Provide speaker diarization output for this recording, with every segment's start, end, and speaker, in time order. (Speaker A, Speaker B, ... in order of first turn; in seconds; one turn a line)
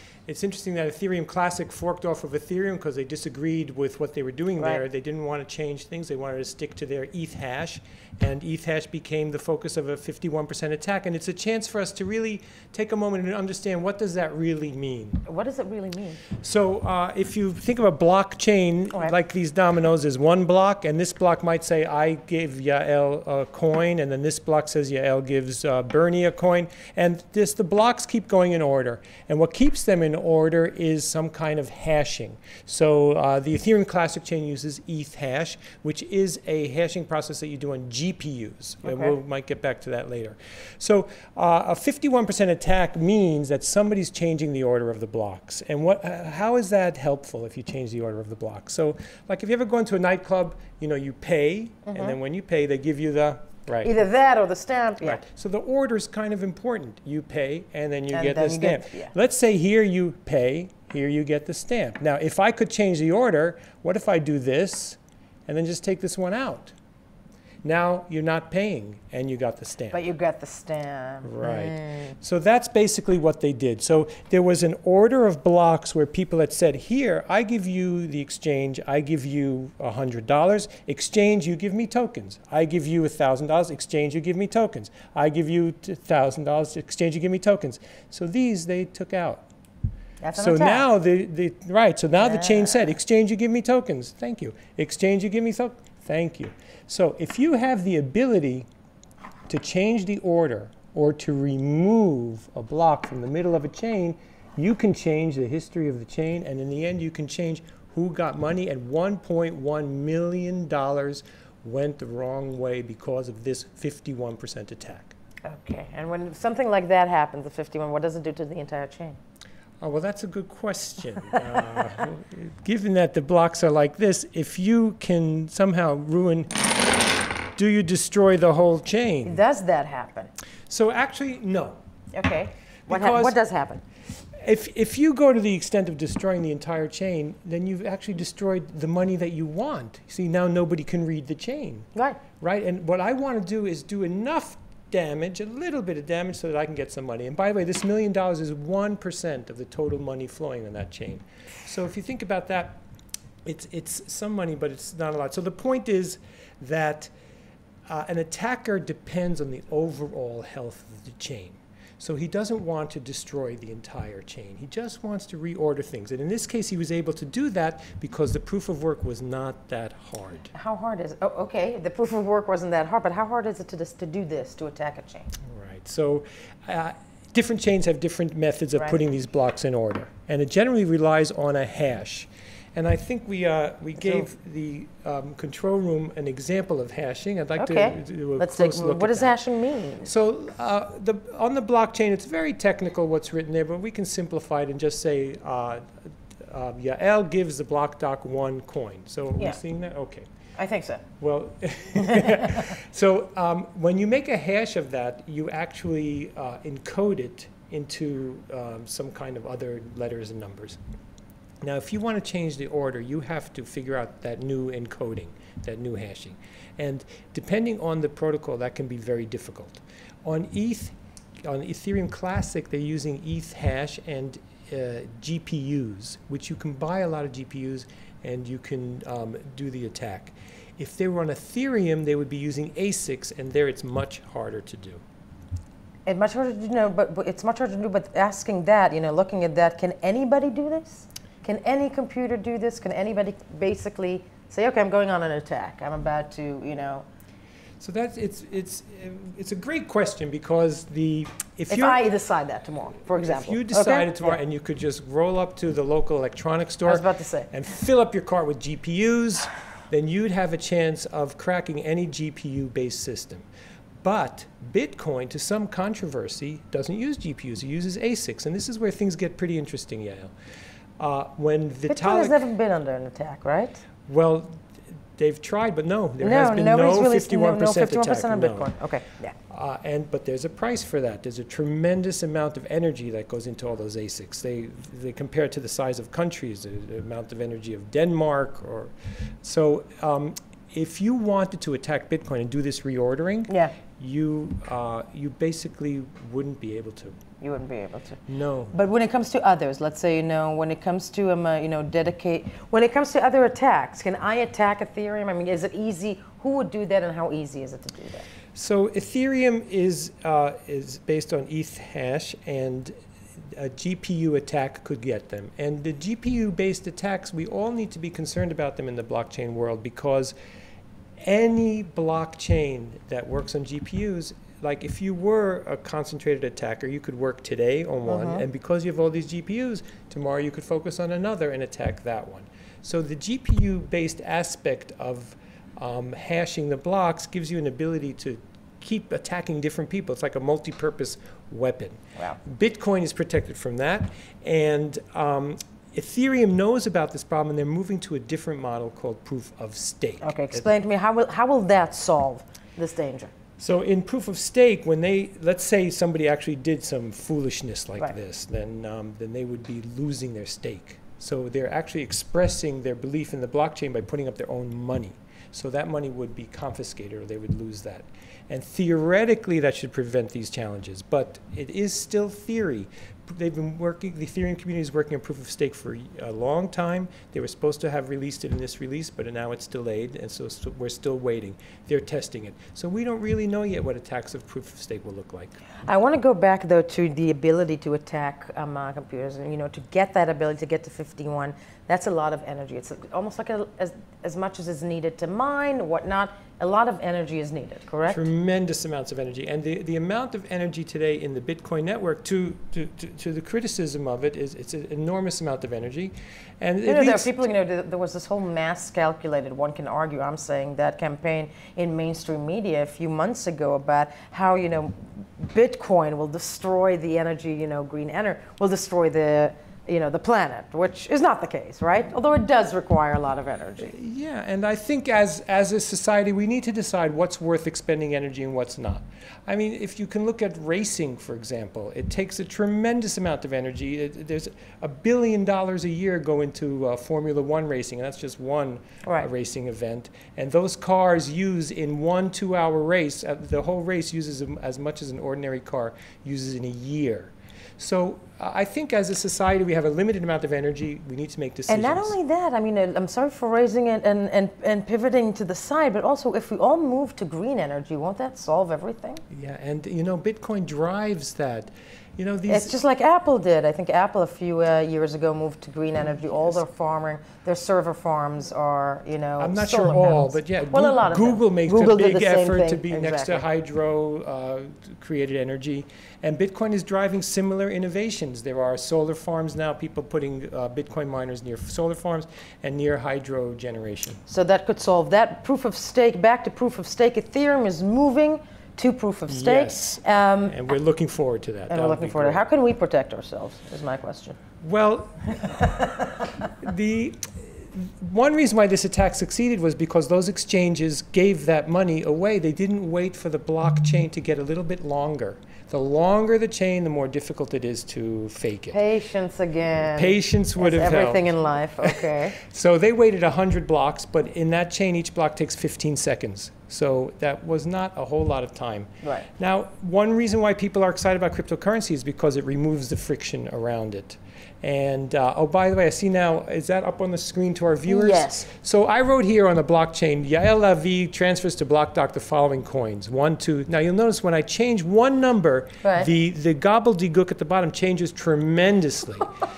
Speaker A: 0.3-15.2
Speaker B: 15.3-16.2
Speaker A: 16.4-54.0
Speaker B: 38.8-39.1
Speaker B: 51.9-52.2
Speaker B: 53.8-55.2
Speaker A: 55.0-66.7
Speaker B: 58.1-59.1
Speaker A: 67.6-70.0
Speaker B: 69.9-72.1
Speaker A: 71.2-89.5
Speaker B: 90.2-90.9
Speaker A: 90.4-98.7
Speaker B: 92.2-92.9
Speaker A: 99.5-115.1
Speaker B: 115.5-119.2
Speaker A: 119.8-126.5
Speaker A: 127.5-129.4
Speaker B: 129.2-130.3
Speaker A: 130.7-131.8
Speaker B: 132.1-133.8
Speaker A: 132.9-133.4
Speaker A: 134.4-141.9
Speaker B: 141.9-142.2
Speaker A: 142.4-152.8
Speaker A: 153.4-157.1
Speaker A: 157.9-170.5
Speaker B: 170.5-175.3
Speaker A: 175.4-189.3
Speaker B: 184.0-184.2
Speaker B: 187.6-190.1
Speaker A: 190.0-195.9
Speaker A: 196.4-200.2
Speaker B: 200.6-201.0
Speaker A: 201.2-210.8
Speaker B: 202.0-202.7
Speaker A: 211.6-235.0
Speaker B: 236.1-247.1
Speaker A: 247.8-252.0
Speaker B: 251.7-254.3
Speaker A: 253.1-263.4
Speaker B: 256.9-257.5
Speaker A: 264.0-270.3
Speaker A: 271.0-272.4
Speaker B: 271.9-273.8
Speaker A: 274.1-274.6
Speaker A: 275.1-278.7
Speaker B: 276.2-279.3
Speaker A: 279.5-297.2
Speaker B: 293.5-293.8
Speaker B: 297.4-308.2
Speaker A: 298.3-298.7
Speaker A: 308.6-312.9
Speaker A: 313.5-320.3
Speaker A: 321.2-350.6
Speaker B: 328.1-328.4
Speaker B: 350.2-353.3
Speaker A: 353.6-385.6
Speaker B: 385.8-398.2
Speaker A: 398.1-407.4
Speaker B: 406.8-423.9
Speaker A: 423.8-452.1
Speaker B: 439.0-439.3
Speaker B: 451.7-459.2
Speaker A: 459.3-462.7
Speaker B: 462.5-473.4
Speaker A: 469.4-484.2
Speaker B: 484.3-490.6
Speaker A: 489.3-492.4
Speaker B: 491.7-494.4
Speaker A: 494.6-495.7
Speaker B: 495.4-496.3
Speaker A: 496.6-508.8
Speaker B: 508.7-512.4
Speaker A: 509.9-539.3
Speaker B: 527.9-528.5
Speaker B: 535.8-536.1